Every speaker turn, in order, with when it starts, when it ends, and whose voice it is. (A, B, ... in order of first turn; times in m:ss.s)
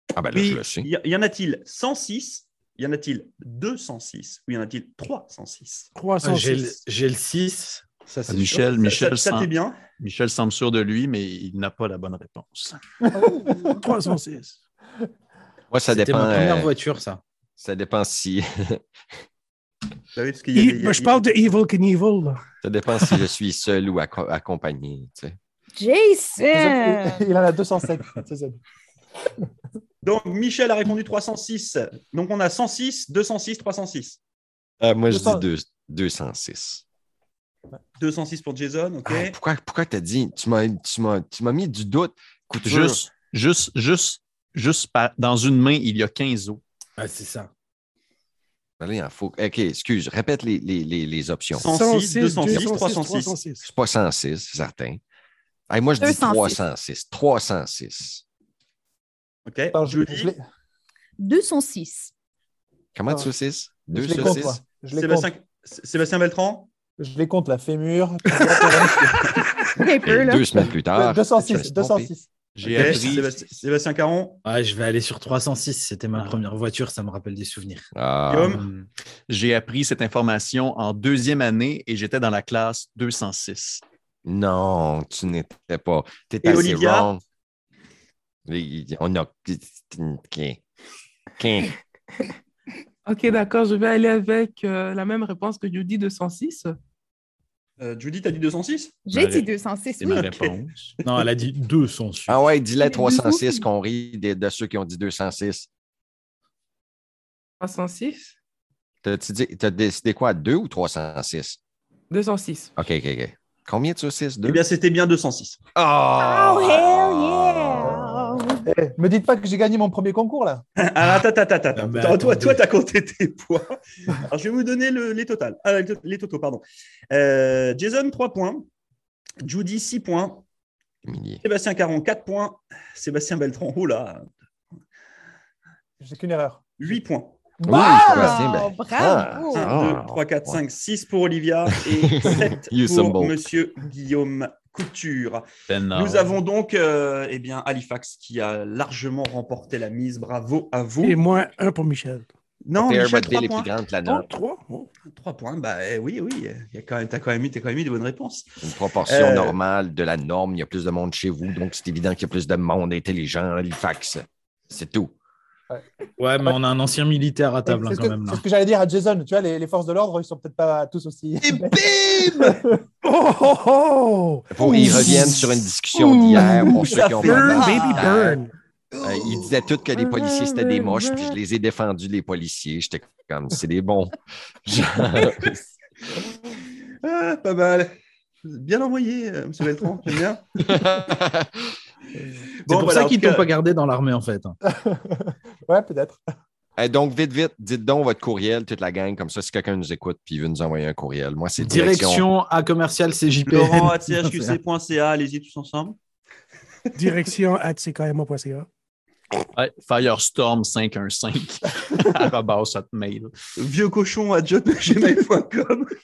0:00.1-0:00.9 A
0:00.3-0:00.6 B
0:00.4-0:05.9 C
0:06.0-0:06.8 B
0:06.2-0:08.6 D
0:08.3-0:12.8 E
0:08.7-0:09.8 C
0:13.1-0:13.7 F
0:13.7-0:14.6 B
0:15.7-0:16.7 A
0:15.9-0:17.2 D
0:17.6-0:18.8 A
0:20.2-0:21.3 C
0:20.5-0:22.4 B
0:22.6-0:25.4 A
0:25.8-0:27.2 G
0:26.5-0:28.6 F
0:30.0-0:34.2 C
0:34.8-0:36.8 A
0:35.1-0:35.4 F
0:38.0-0:39.4 C
0:39.0-0:43.0 A
0:42.6-0:46.6 E
0:47.0-0:47.5 D
0:48.8-0:51.7 A
0:51.5-0:53.4 C
0:51.6-0:53.7 B
0:52.5-0:52.9 A
0:53.6-0:55.0 A
0:55.7-0:58.2 A
0:56.0-0:56.6 G
0:59.5-1:00.3 C
0:59.7-1:00.4 F
1:01.2-1:02.1 G
1:02.9-1:04.6 A
1:03.9-1:05.3 F
1:04.9-1:06.7 C
1:07.0-1:09.8 F
1:08.6-1:09.4 C
1:09.7-1:10.5 G
1:10.0-1:12.1 A
1:10.9-1:12.3 F
1:12.5-1:13.4 E
1:12.6-1:14.4 C
1:14.4-1:17.9 D
1:16.1-1:16.4 E
1:17.9-1:18.6 A
1:18.3-1:18.6 C
1:18.5-1:18.8 D
1:19.3-1:23.8 E
1:24.2-1:27.2 A
1:26.4-1:27.1 C
1:28.5-1:30.6 A
1:31.4-1:31.8 A
1:33.0-1:36.7 H
1:37.8-1:39.0 C
1:39.1-1:40.4 G
1:39.1-1:39.5 E
1:40.0-1:40.9 E
1:41.0-1:42.4 D
1:42.3-1:45.7 A
1:42.8-1:43.6 G
1:47.6-1:48.3 H
1:49.0-1:51.6 A
1:52.1-1:52.7 H
1:52.8-1:54.6 A
1:54.4-1:55.6 C
1:55.8-1:58.3 A
1:56.2-1:58.6 G
1:57.8-1:58.1 F
1:58.6-2:00.6 F
2:00.8-2:08.6 C
2:01.7-2:02.6 D
2:09.4-2:10.4 C
2:11.0-2:11.4 A
2:11.4-2:14.2 C
2:16.0-2:17.0 F
2:16.8-2:17.5 C
2:17.6-2:18.4 F
2:17.6-2:19.7 G
2:17.7-2:20.6 A
2:19.5-2:31.2 C
2:21.7-2:23.4 A
2:25.7-2:26.4 E
2:31.0-2:32.2 B
2:32.7-2:33.7 C
2:32.8-2:34.3 A
2:34.0-2:34.9 B
2:35.1-2:39.6 C
2:38.6-2:45.1 A
2:46.2-2:48.4 D
2:47.7-2:52.8 F
2:53.0-2:58.5 B
2:54.5-2:58.2 A
2:56.4-2:58.4 C
2:59.0-3:05.6 A
3:00.7-3:01.4 H
3:07.0-3:10.6 C
3:10.6-3:11.5 A
3:12.6-3:13.5 C
3:12.7-3:14.6 D
3:14.7-3:16.2 F
3:16.8-3:22.2 A
3:21.6-3:24.6 D
3:23.4-3:26.0 C
3:27.0-3:28.7 B
3:29.5-3:33.3 E
3:33.6-3:35.9 C